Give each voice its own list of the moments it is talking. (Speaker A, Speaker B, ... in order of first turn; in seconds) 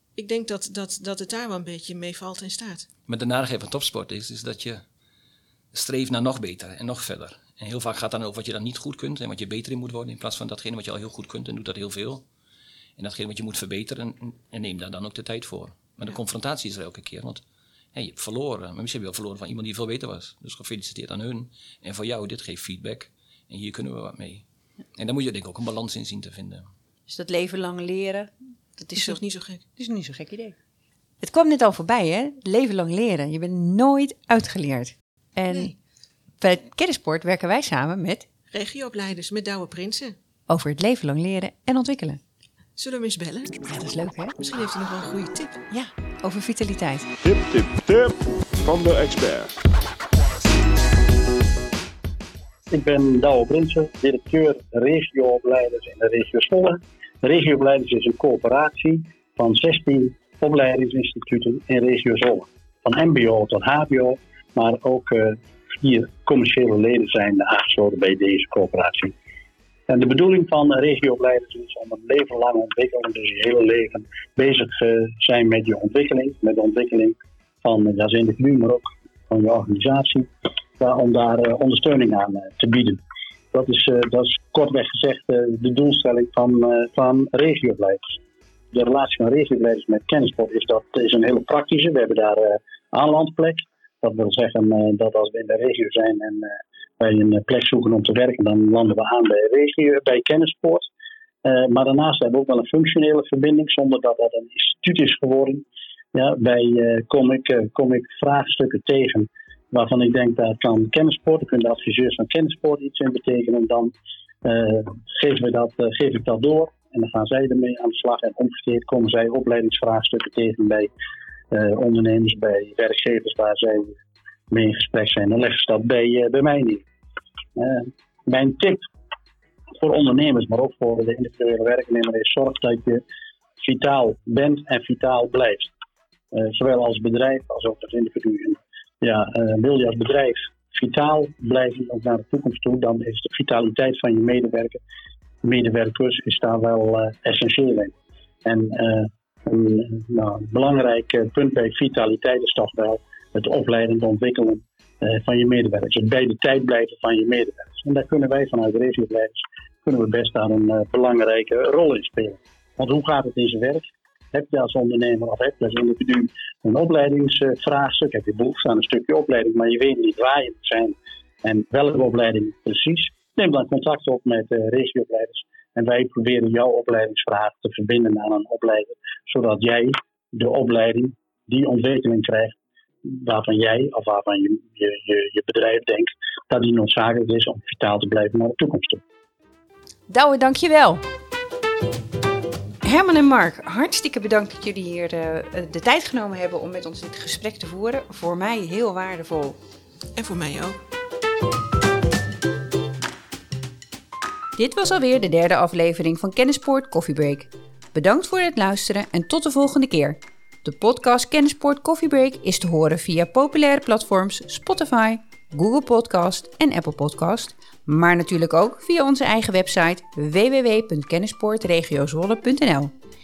Speaker A: 0.1-2.8, 29.0-29.6, 35.5-35.8, 38.5-40.1, 42.8-43.6, 44.4-45.6, 200.2-200.8
Speaker B: 3.1-4.8, 5.7-12.2, 13.0-17.4, 17.9-26.6
Speaker C: 27.1-29.2, 29.8-30.6, 31.2-35.7, 36.4-38.3, 40.5-42.2, 43.6-44.3, 45.7-47.0, 190.1-191.0, 192.8-199.6, 204.6-222.9
Speaker D: 47.2-49.6
Speaker E: 52.7-69.1, 69.9-83.0, 83.5-88.2, 88.7-100.9, 101.4-113.9, 114.4-120.9, 121.5-124.0, 124.5-126.8, 127.5-128.9, 129.8-133.0, 133.6-135.7, 136.3-144.8, 145.4-147.9, 148.4-182.5, 183.1-189.0